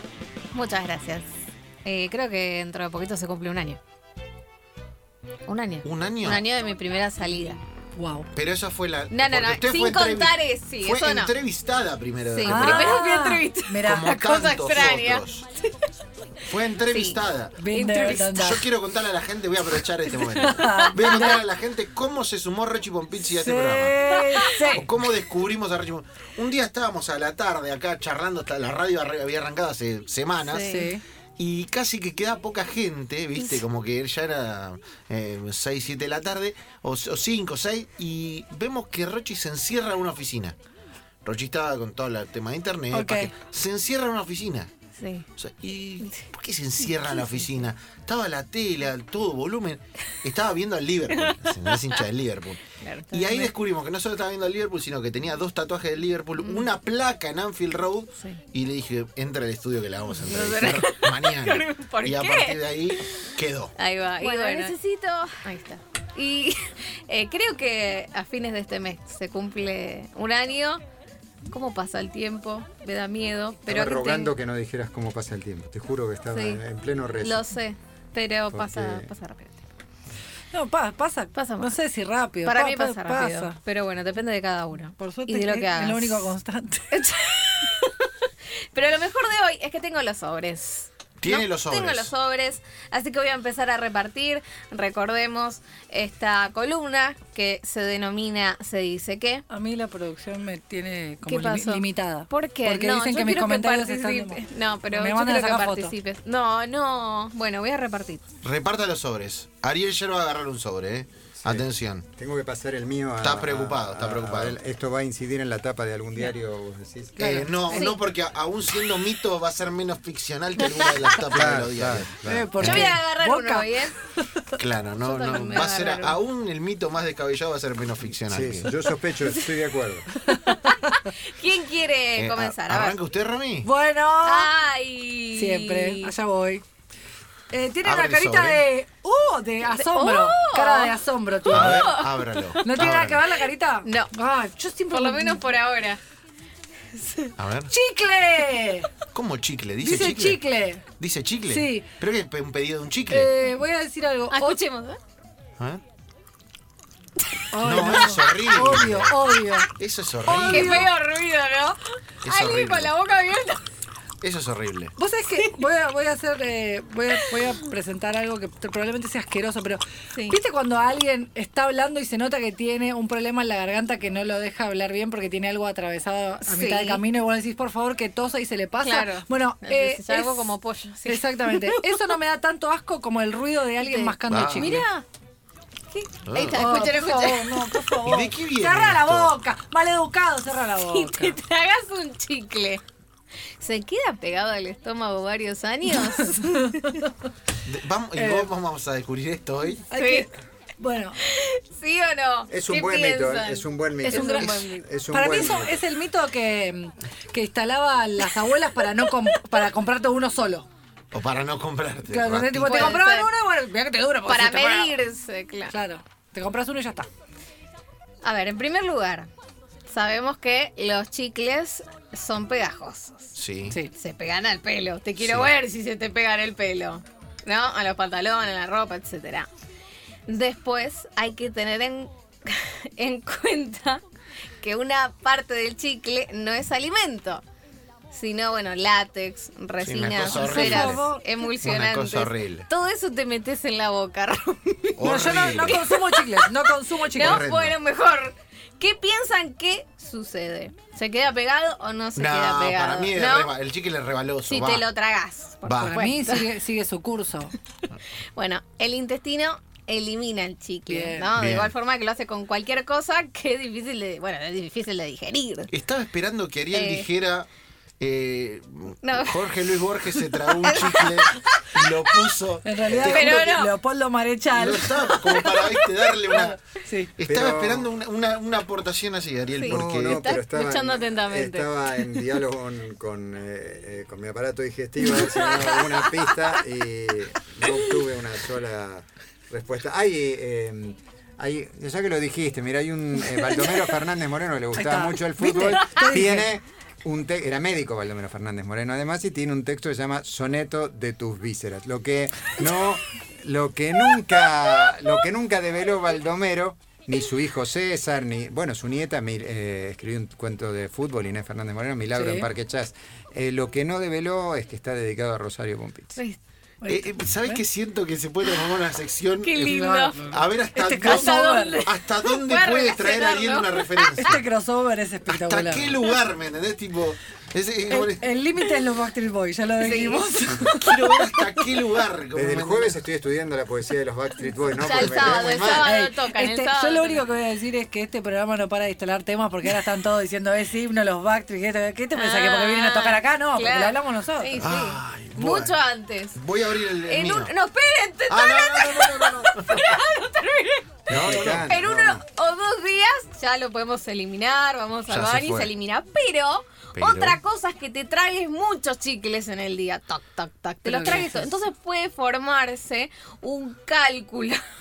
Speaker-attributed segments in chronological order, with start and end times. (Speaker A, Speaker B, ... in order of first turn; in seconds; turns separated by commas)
Speaker A: 0.5-1.3, Speaker A: 1.8-3.8, Speaker A: 5.5-7.6, Speaker B: 5.8-6.4, Speaker C: 8.0-8.3, Speaker B: 8.3-13.0, Speaker A: 9.1-11.3, Speaker A: 12.3-15.8, Speaker C: 12.4-14.1, Speaker B: 13.8-15.4, Speaker B: 16.4-17.6, Speaker A: 16.9-17.2, Speaker C: 17.6-18.7, Speaker A: 17.7-18.4, Speaker B: 18.3-30.9, Speaker C: 20.3-21.4, Speaker A: 20.7-21.3, Speaker C: 23.2-24.9, Speaker A: 24.1-24.7, Speaker A: 30.4-30.9, Speaker C: 30.6-31.0, Speaker B: 31.4-40.5, Speaker B: 41.2-44.7, Speaker C: 42.9-43.3, Speaker A: 45.0-45.2, Speaker B: 45.4-63.7, Speaker A: 47.0-47.4, Speaker A: 51.2-52.0, Speaker A: 52.8-53.5, Speaker A: 56.4-56.6, Speaker A: 60.2-63.0, Speaker A: 63.8-70.8, Speaker A: 71.5-74.3, Speaker D: 73.7-77.5, Speaker A: 76.3-76.6, Speaker A: 77.2-79.6, Speaker D: 78.5-79.1, Speaker C: 80.5-83.5, Speaker A: 81.3-81.8, Speaker A: 82.4-86.3, Speaker C: 85.0-87.0, Speaker A: 86.9-88.1, Speaker A: 88.7-99.4, Speaker B: 91.2-92.1, Speaker C: 99.5-105.9, Speaker A: 101.3-108.2, Speaker B: 108.4-112.0, Speaker D: 111.3-117.8, Speaker B: 113.2-114.6, Speaker B: 117.2-122.1, Speaker C: 117.2-117.8, Speaker A: 117.7-118.0, Speaker A: 120.6-120.9, Speaker D: 121.3-122.9, Speaker C: 122.2-124.5, Speaker A: 122.6-124.0, Speaker B: 124.5-128.7, Speaker A: 125.0-126.2, Speaker D: 128.3-130.1, Speaker C: 130.1-131.0, Speaker A: 130.5-133.0, Speaker B: 132.2-133.7, Speaker C: 133.6-134.5, Speaker A: 134.2-136.1, Speaker C: 135.3-136.6, Speaker C: 137.5-141.9, Speaker B: 137.8-138.6, Speaker A: 139.7-140.9, Speaker B: 141.5-143.2, Speaker A: 141.5-142.6, Speaker C: 142.6-145.4, Speaker A: 143.8-144.1, Speaker A: 144.9-146.0, Speaker A: 146.9-147.3, Speaker B: 147.4-147.7, Speaker C: 147.7-148.9, Speaker B: 149.1-150.4, Speaker C: 149.8-150.8, Speaker B: 151.0-153.3, Speaker C: 151.5-151.9, Speaker C: 153.1-154.6, Speaker A: 154.3-155.0, Speaker A: 157.3-158.2, Speaker C: 157.5-159.7, Speaker B: 157.6-159.2, Speaker B: 159.8-160.9, Speaker C: 160.2-160.9, Speaker A: 160.3-163.6, Speaker B: 162.2-162.9, Speaker B: 164.2-164.9, Speaker C: 165.0-180.4, Speaker A: 167.1-167.5, Speaker A: 176.4-177.0, Speaker A: 178.8-182.2, Speaker C: 181.1-184.9, Speaker A: 183.8-185.0, Speaker B: 184.3-184.8, Speaker A: 185.9-188.0, Speaker B: 186.2-186.8, Speaker C: 186.5-191.4, Speaker B: 188.0-189.4, Speaker A: 190.8-192.8, Speaker A: 193.6-197.0, Speaker C: 195.9-197.1, Speaker B: 197.6-199.8, Speaker C: 198.1-198.5, Speaker C: 199.9-201.2, Speaker A: 199.9-200.3, Speaker A: 201.2-204.8, Speaker D: 202.5-205.8, Speaker C: 204.0-210.7, Speaker B: 211.1-213.0, Speaker C: 212.1-214.9, Speaker A: 212.6-213.3, Speaker A: 214.2-215.7, Speaker C: 215.7-217.1, Speaker A: 218.2-219.3, Speaker A: 219.9-223.3, Speaker B: 223.3-223.8, Speaker A: 223.9-229.5, Speaker B: 225.2-225.5, Speaker A: 230.3-234.0, Speaker A: 234.6-237.4, Speaker A: 238.1-245.1, Speaker B: 239.8-241.0, Speaker C: 240.3-241.2, Speaker B: 241.6-242.7, Speaker B: 245.0-245.8, Speaker C: 245.0-247.4, Speaker A: 245.6-253.5, Speaker B: 247.1-247.8, Speaker B: 252.2-254.8, Speaker A: 254.5-256.5, Speaker B: 255.6-256.0, Speaker C: 255.8-257.5, Speaker A: 258.4-265.7, Speaker C: 260.9-261.3, Speaker B: 261.3-261.7, Speaker B: 265.7-267.5, Speaker A: 266.7-267.1, Speaker B: 268.0-273.4, Speaker A: 269.0-271.6, Speaker C: 272.6-275.5, Speaker A: 272.9-273.8, Speaker B: 274.5-276.6, Speaker A: 275.3-275.9, Speaker C: 276.3-277.1, Speaker B: 277.2-280.3, Speaker D: 277.2-277.9, Speaker A: 279.6-281.8, Speaker D: 279.6-316.2, Speaker C: 285.1-285.8, Speaker C: 293.2-293.9, Speaker C: 294.7-296.5, Speaker C: 312.1-312.5, Speaker C: 316.8-317.6, Speaker B: 316.9-324.4, Speaker A: 319.4-320.2, Speaker C: 319.6-321.9, Speaker A: 321.0-324.1, Speaker C: 324.1-326.0, Speaker B: 325.3-328.2, Speaker C: 327.9-331.2, Speaker A: 329.8-330.3, Speaker B: 330.7-333.0, Speaker D: 332.3-335.9, Speaker A: 334.8-337.2, Speaker C: 334.9-344.6, Speaker A: 342.1-346.4, Speaker B: 344.6-345.8, Speaker B: 346.3-347.5, Speaker A: 347.0-364.6, Speaker B: 348.3-349.9, Speaker B: 351.1-351.7, Speaker D: 351.1-352.2, Speaker B: 355.1-355.7, Speaker B: 356.9-357.4, Speaker C: 360.8-361.5